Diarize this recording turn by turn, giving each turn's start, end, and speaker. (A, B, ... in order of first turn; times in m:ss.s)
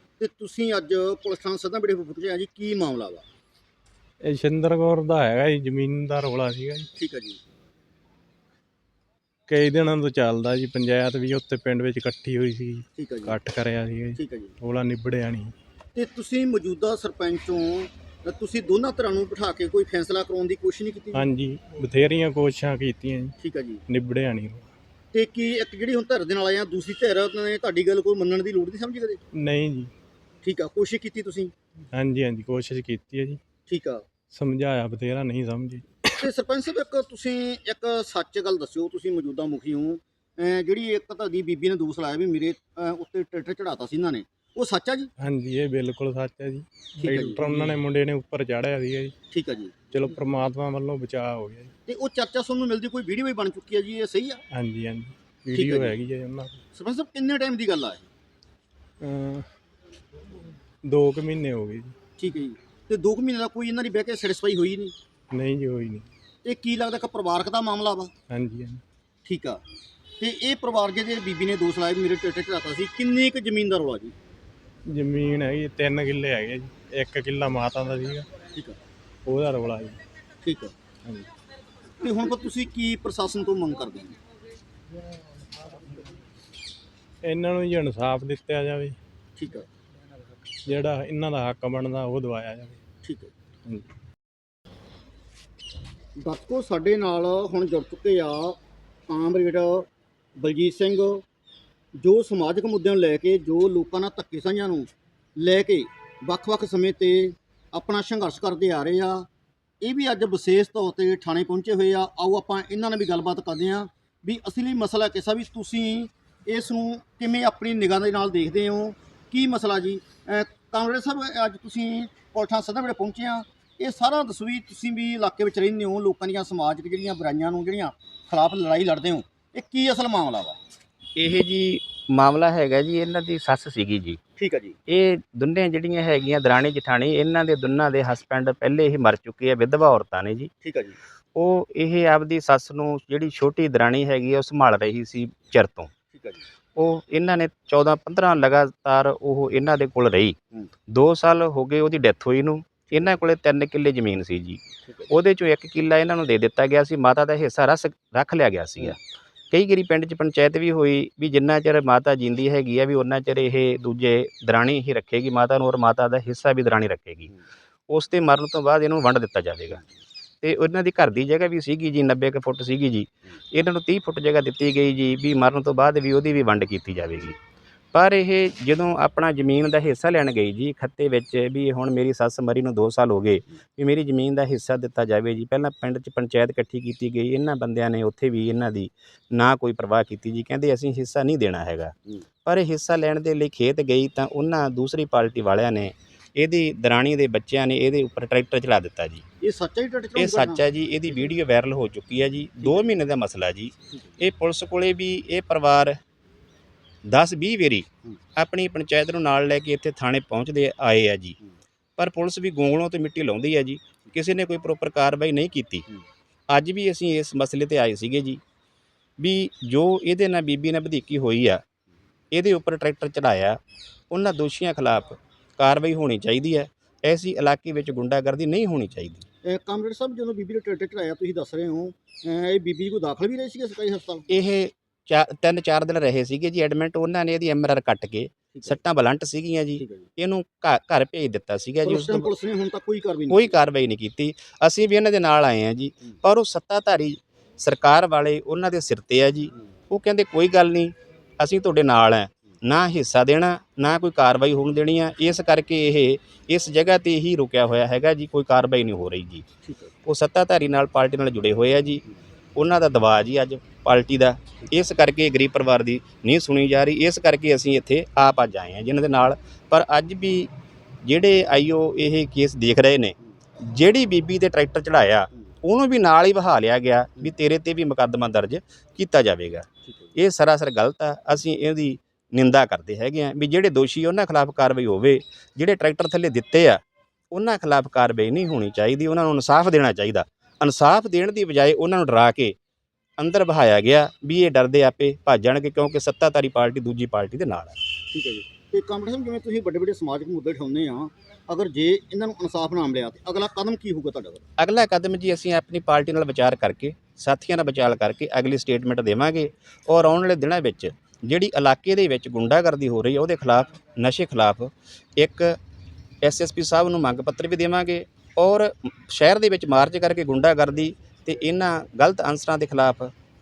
0:00.2-0:03.2 A
0:04.2-0:06.9 B
0:07.0-0:07.4 A
0:09.5-0:15.5 B
0:13.0-0:13.3 A
0:14.2-0:14.5 A
0:15.9-0:21.2 A
0:21.2-0:23.3 B
0:23.4-0:23.8 A
0:23.9-0:24.7 B
0:25.1-0:29.2 A
0:29.3-0:29.9 B
0:30.4-0:31.5 A
0:31.9-0:33.4 B
0:33.7-0:34.0 A
0:34.3-0:36.2 B
0:36.2-0:45.1 A
0:45.2-0:49.1 B
0:47.0-0:47.8 A
0:49.3-0:49.7 A
0:49.9-0:51.7 B
0:51.9-0:54.4 A
0:54.5-0:56.6 B
0:55.5-0:55.9 A
0:56.7-0:58.1 A
0:59.0-0:59.5 B
1:00.8-1:01.9 B
1:02.2-1:04.9 A
1:05.3-1:06.1 B
1:06.4-1:08.1 A
1:08.3-1:08.8 B
1:09.2-1:09.6 A
1:10.2-1:14.1 A
1:14.9-1:18.3 B
1:18.5-1:18.8 A
1:19.2-1:20.0 B
1:20.4-1:20.7 A
1:22.0-1:24.2 A
1:27.2-1:29.0 B
1:29.4-1:29.7 A
1:30.7-1:32.8 B
1:33.0-1:33.3 A
1:36.2-1:38.6 A
1:39.1-1:41.2 A
1:42.0-1:49.3 A
1:49.8-2:10.6 A
2:11.2-2:14.2 C
2:14.4-2:14.8 A
2:14.9-2:20.5 C
2:20.6-2:21.0 A
2:21.3-2:25.9 C
2:26.1-2:26.4 A
2:26.8-2:30.4 C
2:30.9-2:39.0 C
2:39.5-2:47.3 C
2:47.9-2:49.8 C
2:50.4-2:57.4 C
2:57.9-3:19.2 C
3:19.4-3:20.6 A
3:20.2-3:26.0 C
3:22.6-3:22.9 A
3:27.0-3:31.4 C
3:32.0-3:35.9 C
3:36.5-3:38.4 C
3:39.2-3:41.6 C
3:42.3-3:43.6 C
3:44.1-3:49.2 C
3:49.4-3:54.3 A
3:54.3-4:02.3 C
3:58.5-3:58.8 A
3:59.8-4:00.1 A
4:01.8-4:03.6 A
4:03.3-4:19.4 C
4:19.6-4:19.9 A
4:20.0-4:22.0 C
4:22.6-4:30.5 C
4:31.0-4:46.8 C
4:47.3-4:52.5 C
4:53.2-4:57.8 C
4:58.1-5:04.4 A
5:04.6-5:15.6 C
5:16.2-5:23.1 C